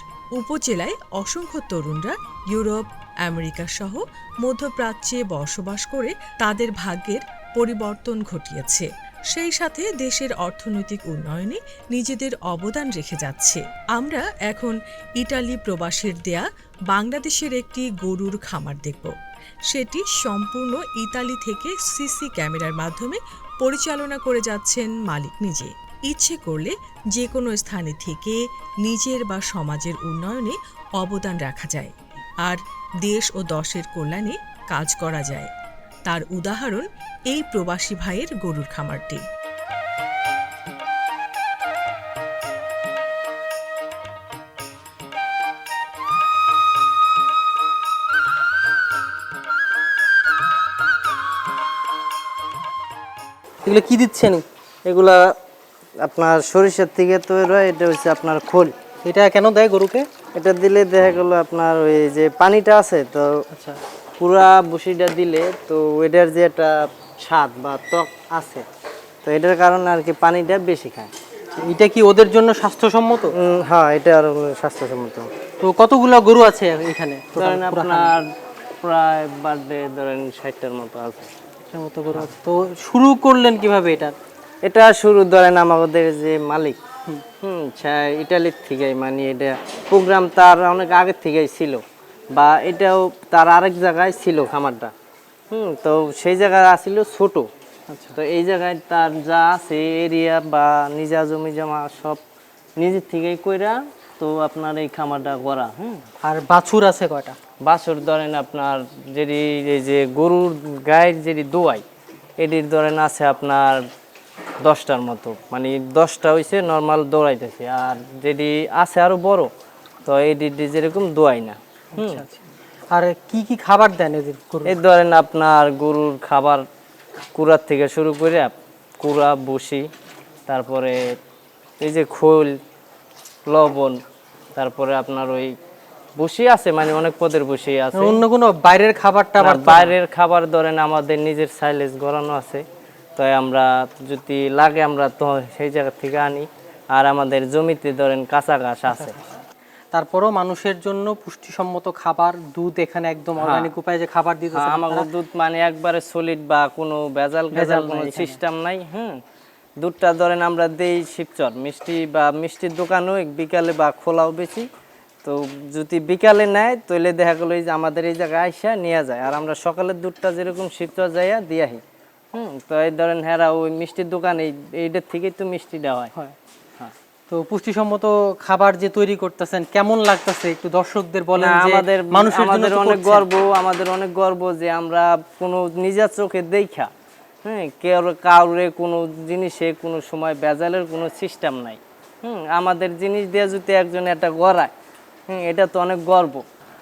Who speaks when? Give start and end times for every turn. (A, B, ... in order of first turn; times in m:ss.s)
0:00.4-0:19.1 A
0:19.7-0:35.5 A
0:36.0-0:39.2 A
0:53.6-0:54.4 B
0:54.8-0:55.3 C
0:56.0-0:58.7 C
0:59.0-1:00.0 B
1:00.4-1:03.3 C
1:03.5-1:03.8 B
1:04.2-1:08.6 C
1:09.2-1:11.1 C
1:11.6-1:13.3 B
1:13.4-1:15.3 C
1:15.6-1:18.1 B
1:17.4-1:18.2 C
1:18.8-1:21.3 C
1:21.7-1:24.1 B
1:24.6-1:26.8 C
1:27.4-1:31.8 C
1:32.3-1:34.9 C
1:35.5-1:37.5 C
1:37.9-1:38.1 B
1:38.2-1:42.2 C
1:42.8-1:46.0 C
1:46.2-1:47.4 B
1:47.6-1:51.8 C
1:52.4-1:53.8 C
1:54.6-1:59.5 C
2:00.0-2:02.2 C
2:02.0-2:04.7 B
2:04.6-2:06.6 C
2:07.3-2:09.8 C
2:10.5-2:11.0 C
2:11.8-2:12.5 C
2:13.5-2:14.0 C
2:14.6-2:15.5 C
2:16.2-2:18.2 C
2:17.9-2:19.9 B
2:19.4-2:22.6 C
2:23.2-2:29.2 C
2:29.9-2:35.1 B
2:33.4-2:33.7 C
2:34.5-2:39.2 C
2:37.5-2:38.4 B
2:39.8-2:44.7 C
2:45.2-2:51.8 C
2:52.3-2:56.1 C
2:57.3-3:03.2 B
3:01.4-3:06.9 C
3:07.4-3:14.7 C
3:15.3-3:16.4 C